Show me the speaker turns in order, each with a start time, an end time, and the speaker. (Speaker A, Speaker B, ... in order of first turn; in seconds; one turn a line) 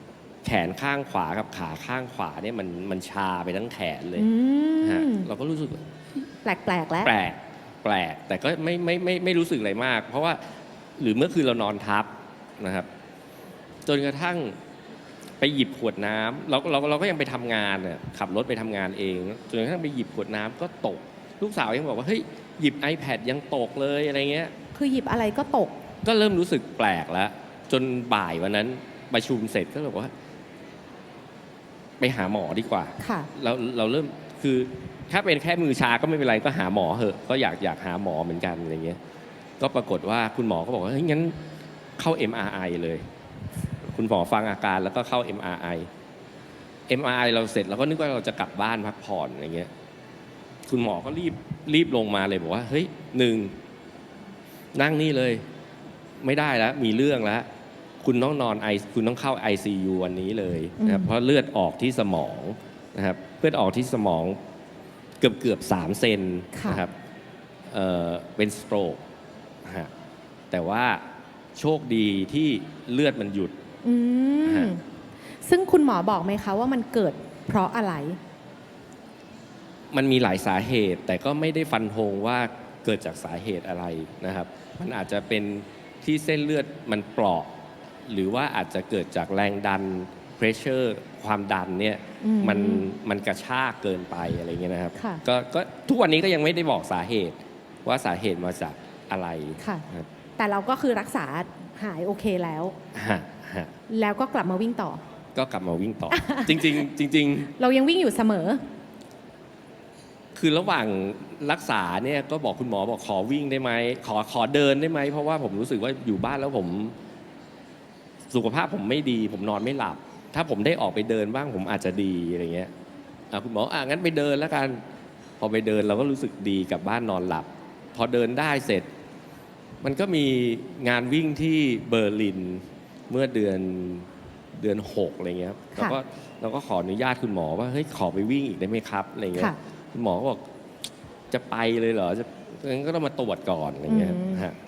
Speaker A: 0.4-4.3
Speaker B: 4.2-5.3
Speaker A: 4.8-5.8
Speaker B: 6.4-7.1
Speaker A: 7.0-10.4
Speaker A: 11.0-12.9
Speaker A: 13.9-14.6
Speaker A: 15.4-24.5
Speaker B: 24.8-25.8
Speaker A: 26.0-30.1
Speaker A: 32.0-39.0
Speaker B: 33.0-33.3
Speaker A: 39.6-41.4
Speaker A: 42.0-43.0
Speaker A: 43.8-45.9
Speaker A: 46.9-49.7
Speaker A: 50.7-53.5
Speaker A: 54.7-55.4
Speaker A: 56.2-57.5
Speaker A: 58.0-64.4
Speaker B: 60.8-61.1
Speaker A: 65.2-66.9
Speaker B: 66.5-66.8
Speaker A: 67.7-69.0
Speaker A: 69.6-69.9
Speaker A: 70.5-71.0
Speaker A: 71.5-73.5
Speaker B: 73.8-74.8
Speaker A: 74.5-74.7
Speaker B: 75.5-78.2
Speaker A: 79.9-87.5
Speaker A: 88.1-100.1
Speaker B: 92.2-92.8
Speaker B: 95.0-95.2
Speaker B: 99.6-99.8
Speaker B: 100.4-102.8
Speaker A: 102.9-103.7
Speaker B: 103.9-105.0
Speaker A: 105.3-107.5
Speaker B: 106.1-106.8
Speaker B: 107.6-108.6
Speaker A: 110.3-117.0
Speaker A: 118.3-122.7
Speaker A: 123.3-124.8
Speaker A: 125.4-128.9
Speaker A: 129.8-140.4
Speaker A: 141.3-144.6
Speaker B: 143.9-144.5